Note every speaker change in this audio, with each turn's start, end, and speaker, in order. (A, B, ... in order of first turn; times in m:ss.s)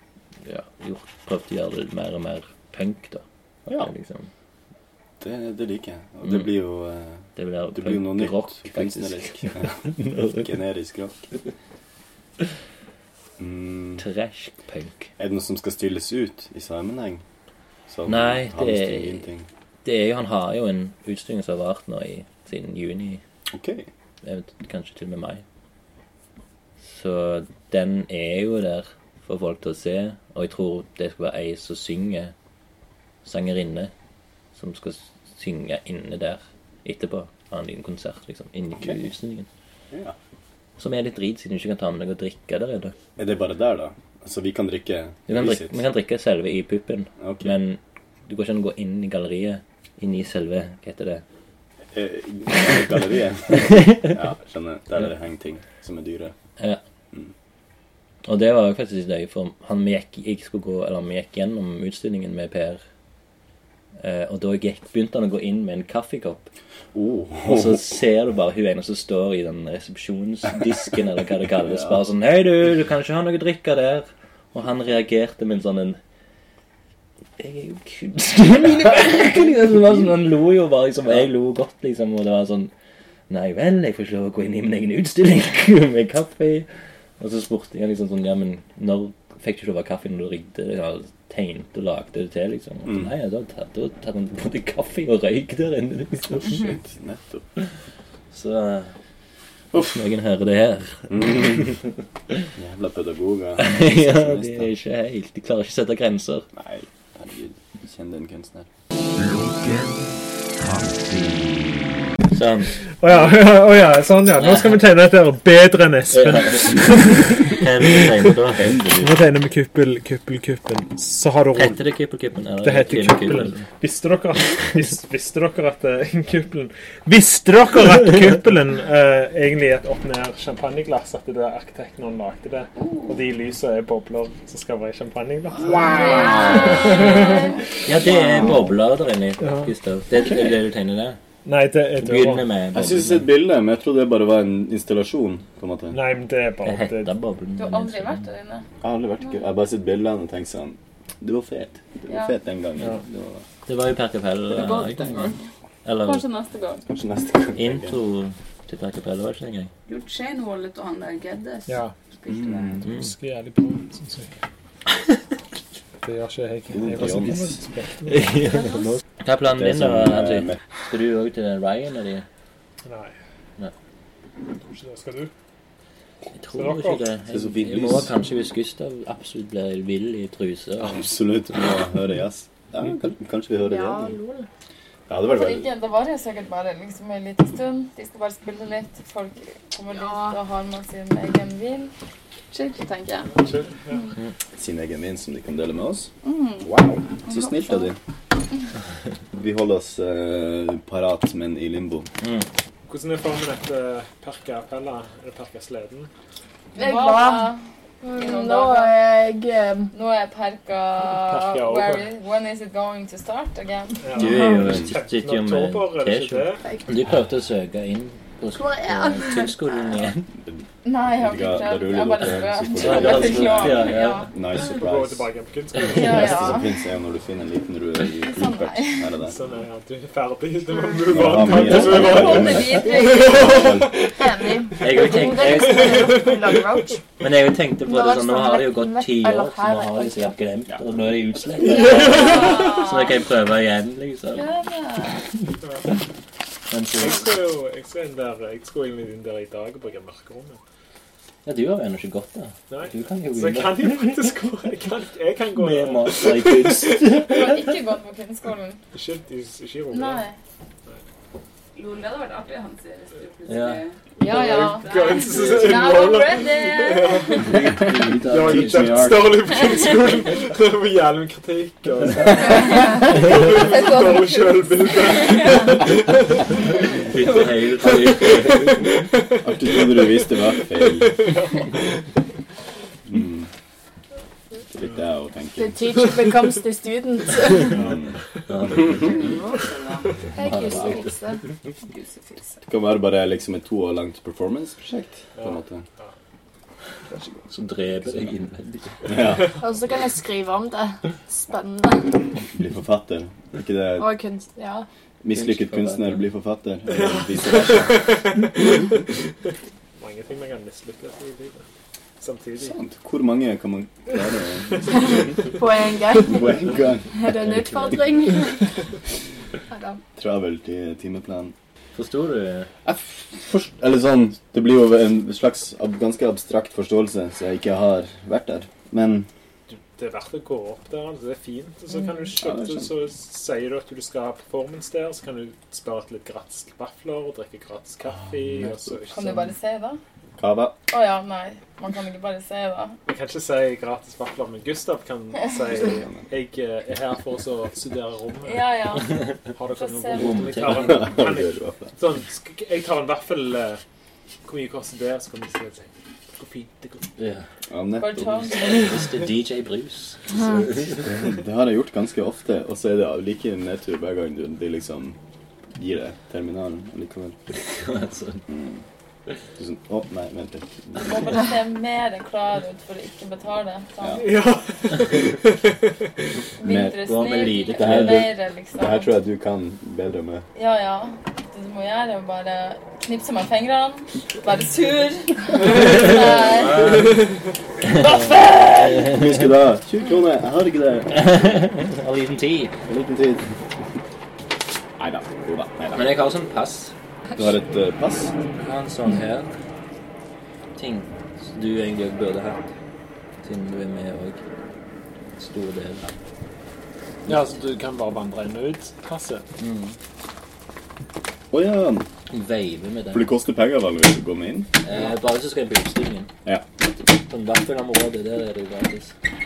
0:00.4-0:04.3 A
0:05.2-0:09.9 B
0:06.2-0:06.5 A
0:07.4-0:10.5 A
0:10.4-0:11.2 B
0:13.4-0:14.0 B
0:14.0-0:15.1 A
0:15.2-0:17.2 B
0:17.9-0:19.5 B
0:18.1-0:19.3 A
0:19.8-0:23.2 A
0:23.5-0:23.9 B
0:24.2-0:25.4 A
0:26.8-0:32.3 A
0:33.2-0:33.9 A
0:34.6-0:39.5 A
0:39.9-0:40.2 B
0:40.8-0:42.9 A
0:43.2-0:45.8 B
0:45.3-0:51.2 A
0:47.2-0:47.5 B
0:51.9-0:56.3 B
0:53.6-0:54.1 A
0:58.2-1:02.8 A
1:04.0-1:06.5 A
1:06.9-1:07.8 B
1:07.4-1:16.0 A
1:11.7-1:12.0 B
1:17.4-1:22.7 A
1:23.3-1:26.7 A
1:27.2-1:36.7 A
1:32.8-1:33.1 B
1:36.5-1:37.4 B
1:38.3-1:38.9 A
1:39.8-1:41.9 A
1:41.1-1:41.8 B
1:42.6-1:44.7 B
1:43.6-1:46.5 A
1:46.5-1:48.7 B
1:49.3-1:49.9 B
1:50.6-1:52.0 B
1:52.3-1:53.4 A
1:53.0-1:58.3 C
1:54.4-1:54.8 A
1:56.1-1:58.7 A
1:58.5-1:59.2 B
1:58.9-2:01.8 C
2:01.5-2:03.6 A
2:02.6-2:17.5 C
2:12.8-2:13.2 D
2:15.8-2:17.6 E
2:16.2-2:16.8 B
2:16.2-2:17.4 D
2:16.9-2:17.2 A
2:17.8-2:21.2 A
2:19.4-2:19.7 C
2:20.2-2:20.6 B
2:21.4-2:22.6 C
2:22.0-2:23.2 A
2:22.7-2:26.0 B
2:25.9-2:27.1 C
2:26.6-2:28.3 A
2:27.6-2:28.7 E
2:28.8-2:33.4 B
2:32.1-2:32.3 E
2:33.7-2:35.3 A
2:35.8-2:36.2 A
2:36.0-2:36.8 E
2:36.9-2:38.0 B
2:37.6-2:39.7 A
2:39.8-2:42.8 D
2:41.7-2:41.9 C
2:42.3-2:42.8 B
2:42.8-2:44.3 C
2:46.0-2:48.5 C
2:46.7-2:47.6 B
2:48.1-2:52.2 A
2:49.4-2:50.6 B
2:52.8-2:53.1 C
2:54.6-2:55.3 C
2:56.3-3:01.1 A
2:56.5-2:57.1 C
2:57.3-2:58.1 B
3:00.8-3:04.2 B
3:03.6-3:04.4 F
3:05.1-3:05.7 B
3:05.2-3:11.9 E
3:12.5-3:13.3 E
3:13.3-3:14.1 C
3:14.6-3:16.1 B
3:16.2-3:16.7 E
3:16.6-3:18.0 B
3:19.3-3:22.1 B
3:22.9-3:26.1 C
3:26.8-3:27.5 F
3:26.8-3:27.6 E
3:28.0-3:29.9 F
3:28.2-3:28.9 E
3:29.9-3:34.0 E
3:31.1-3:32.1 C
3:34.0-3:36.6 C
3:34.2-3:40.3 A
3:38.5-3:39.6 F
3:40.4-3:45.3 B
3:40.8-3:44.3 E
3:42.7-3:44.3 A
3:44.5-3:46.6 C
3:45.9-3:46.7 E
3:46.0-3:49.4 B
3:48.1-3:49.2 E
3:49.2-3:54.1 C
3:51.1-3:53.9 B
3:51.5-3:52.4 A
3:51.9-3:53.7 E
3:54.2-3:56.9 F
3:54.8-3:56.3 A
3:55.7-3:56.4 C
3:57.2-4:04.5 A
3:57.8-4:00.3 F
4:01.7-4:02.6 C
4:02.0-4:03.1 E
4:04.3-4:05.2 E
4:05.6-4:05.9 C
4:06.7-4:07.3 A
4:06.9-4:10.6 C
4:11.4-4:14.3 A
4:12.7-4:17.0 C
4:15.6-4:17.7 A
4:17.2-4:18.8 E
4:18.9-4:20.2 C
4:19.9-4:20.4 E
4:21.7-4:24.0 D
4:23.5-4:23.8 A
4:24.2-4:27.5 C
4:24.2-4:27.4 E
4:24.8-4:25.7 D
4:27.4-4:29.1 A
4:27.5-4:29.5 B
4:28.2-4:37.0 C
4:32.7-4:35.8 E
4:37.1-4:39.0 A
4:37.8-4:42.0 C
4:39.4-4:41.1 B
4:43.1-4:43.5 B
4:44.7-4:45.9 B
4:45.6-4:47.8 F
4:47.7-4:48.8 C
4:47.8-4:48.1 B
4:48.5-4:49.3 A
4:49.0-4:50.1 D
4:50.3-4:51.4 F
4:50.4-4:51.1 A
4:51.9-4:52.6 D
4:52.6-4:55.8 B
4:55.3-4:56.1 C
4:57.5-4:59.2 A
4:59.1-4:59.5 B
4:59.2-4:59.5 C
4:59.6-5:02.2 F
5:02.5-5:04.1 B
5:04.0-5:04.8 F
5:05.2-5:08.0 B
5:05.3-5:06.2 A
5:06.9-5:09.2 C
5:10.0-5:11.6 C
5:12.2-5:12.8 C
5:12.6-5:15.4 B
5:15.5-5:18.6 F
5:16.2-5:17.5 B
5:17.5-5:17.9 A
5:19.7-5:20.0 F
5:20.2-5:21.5 B
5:21.9-5:22.7 A
5:22.8-5:29.3 B
5:29.7-5:39.5 C
5:32.4-5:32.9 B
5:38.6-5:38.9 B
5:39.1-5:40.0 E
5:40.4-5:40.8 B
5:40.9-5:43.0 E
5:43.0-5:48.6 C
5:45.8-5:46.2 B
5:48.4-5:50.6 E
5:49.5-5:53.8 C
5:50.1-5:51.2 A
5:50.7-5:51.9 B
5:54.4-5:57.1 C
5:57.2-5:57.4 A
5:57.7-5:58.5 B
5:58.0-5:58.9 E
5:58.6-6:01.1 A
6:01.0-6:05.2 B
6:05.7-6:07.4 B
6:07.5-6:08.4 A
6:08.5-6:08.8 B
6:09.6-6:11.4 B
6:11.0-6:14.3 E
6:14.1-6:15.9 C
6:16.6-6:17.0 B
6:16.6-6:19.1 E
6:17.0-6:18.3 A
6:17.7-6:20.4 B
6:20.6-6:27.1 E
6:26.0-6:27.2 A
6:27.8-6:29.5 A
6:27.9-6:29.1 E
6:29.1-6:31.3 B
6:31.1-6:32.7 A
6:32.8-6:33.5 B
6:35.0-6:36.2 B
6:35.9-6:36.9 A
6:37.3-6:38.3 B
6:38.6-6:39.5 A
6:40.8-6:42.6 A
6:43.4-6:44.4 A
6:45.4-6:46.1 A
6:47.2-6:49.5 C
6:49.6-6:49.9 A
6:51.5-6:52.1 B
6:52.3-6:53.3 A
6:53.1-6:54.7 B
6:54.8-6:56.3 A
6:57.1-6:59.1 A